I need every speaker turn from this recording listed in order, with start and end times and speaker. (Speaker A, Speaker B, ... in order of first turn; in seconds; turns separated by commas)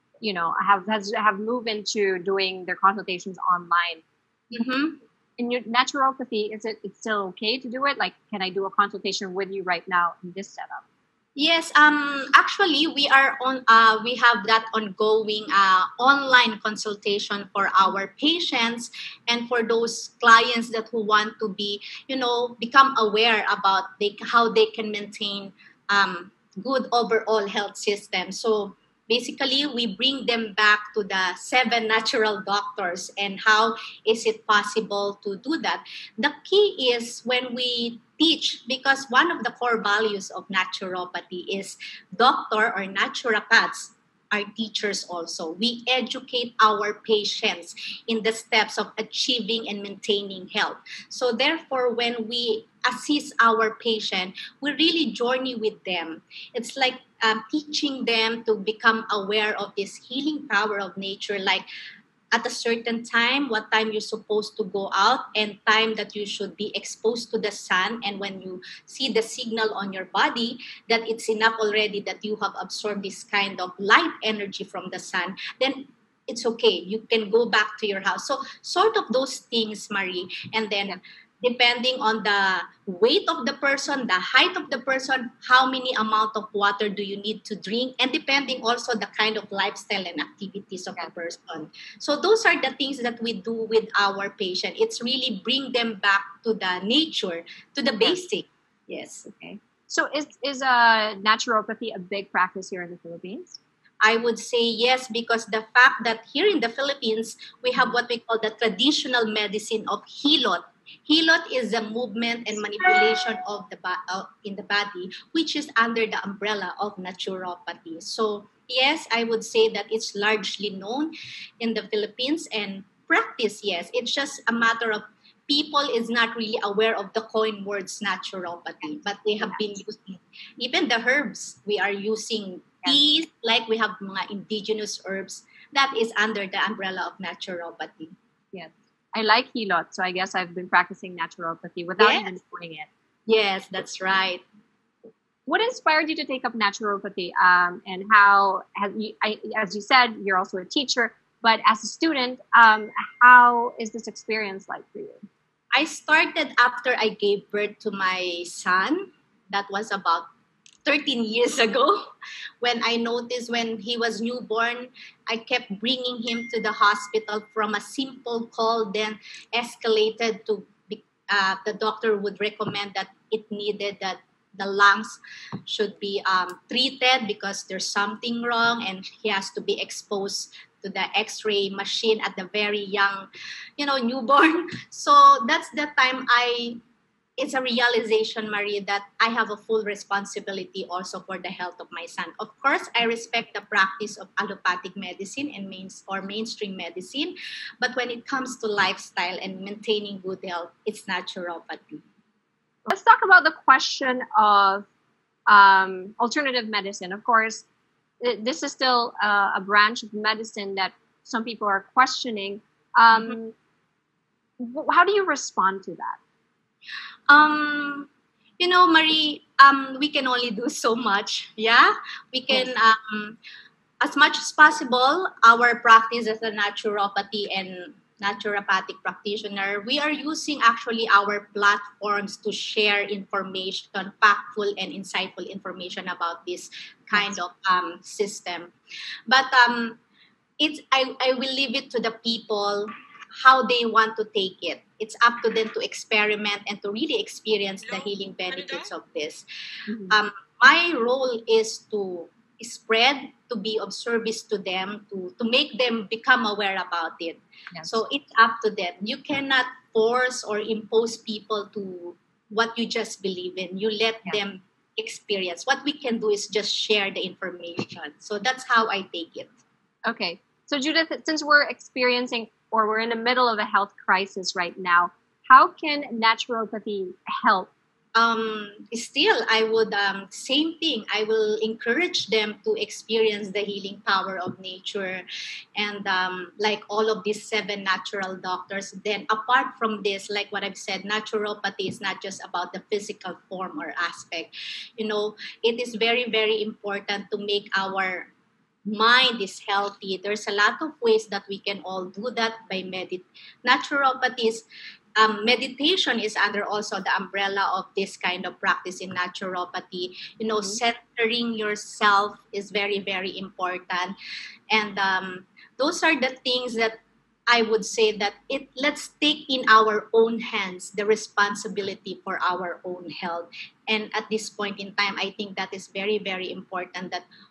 Speaker A: 0.2-4.0, Speaker B: 4.5-5.0, Speaker A: 5.4-10.8, Speaker B: 11.3-61.7, Speaker B: 62.3-99.3, Speaker A: 99.2-103.6, Speaker B: 104.0-138.1, Speaker A: 138.5-142.9, Speaker B: 142.0-142.3, Speaker B: 143.3-144.4, Speaker A: 145.4-155.2, Speaker B: 155.7-160.3, Speaker B: 160.8-162.1, Speaker B: 162.6-186.8, Speaker B: 187.4-202.0, Speaker A: 202.8-204.9, Speaker A: 205.5-207.6, Speaker A: 208.2-213.5, Speaker B: 213.1-213.4, Speaker A: 214.6-216.2, Speaker B: 217.3-218.1, Speaker B: 218.6-223.4, Speaker B: 224.0-238.7, Speaker B: 239.3-240.0, Speaker B: 240.6-242.9, Speaker B: 243.4-249.4, Speaker A: 249.9-250.2, Speaker B: 250.1-269.5, Speaker A: 270.1-277.7, Speaker B: 278.1-285.2, Speaker B: 285.8-298.3, Speaker B: 298.9-304.6, Speaker B: 305.2-314.1, Speaker B: 314.7-327.2